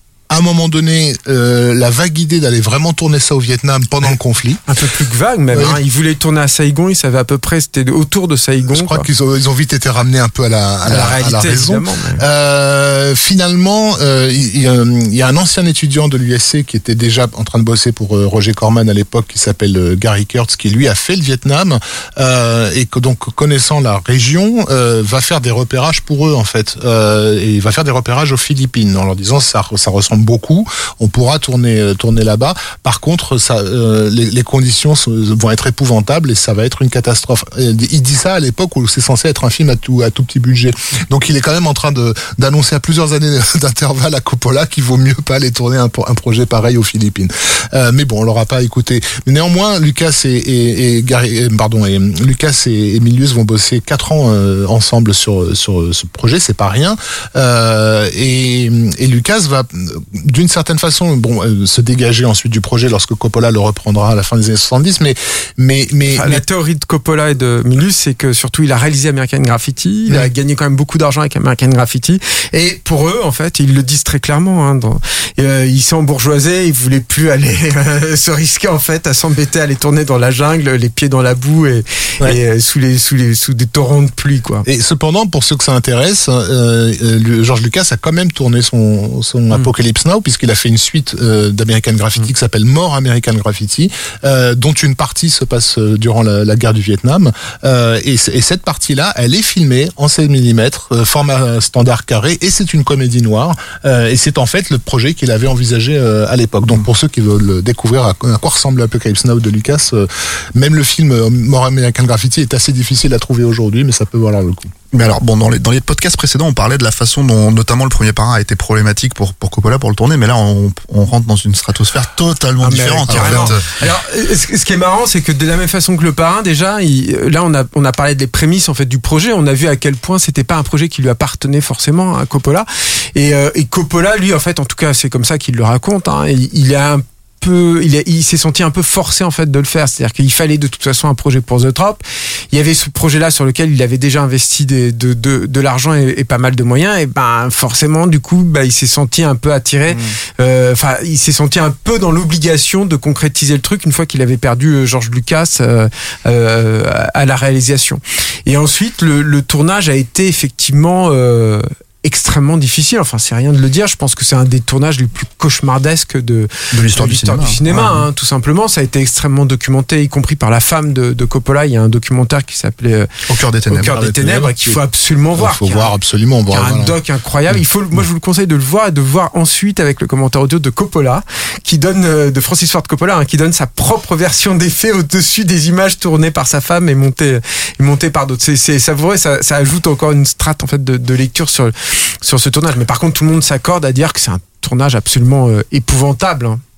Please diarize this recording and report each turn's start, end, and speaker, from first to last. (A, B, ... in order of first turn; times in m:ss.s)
0:00.3-0:04.6 A
0:04.7-0:09.1 B
0:05.5-0:05.8 A
0:08.7-1:06.4 A
0:10.8-0:12.2 B
1:06.1-1:24.6 B
1:24.6-1:54.7 A
1:54.9-2:03.8 C
2:02.6-2:53.1 B
2:03.1-2:03.5 A
2:29.9-2:30.2 C
2:46.7-2:48.0 C
2:53.3-2:54.0 C
2:53.7-2:55.9 B
2:53.9-2:54.8 A
2:55.3-2:57.0 A
2:56.5-3:16.6 B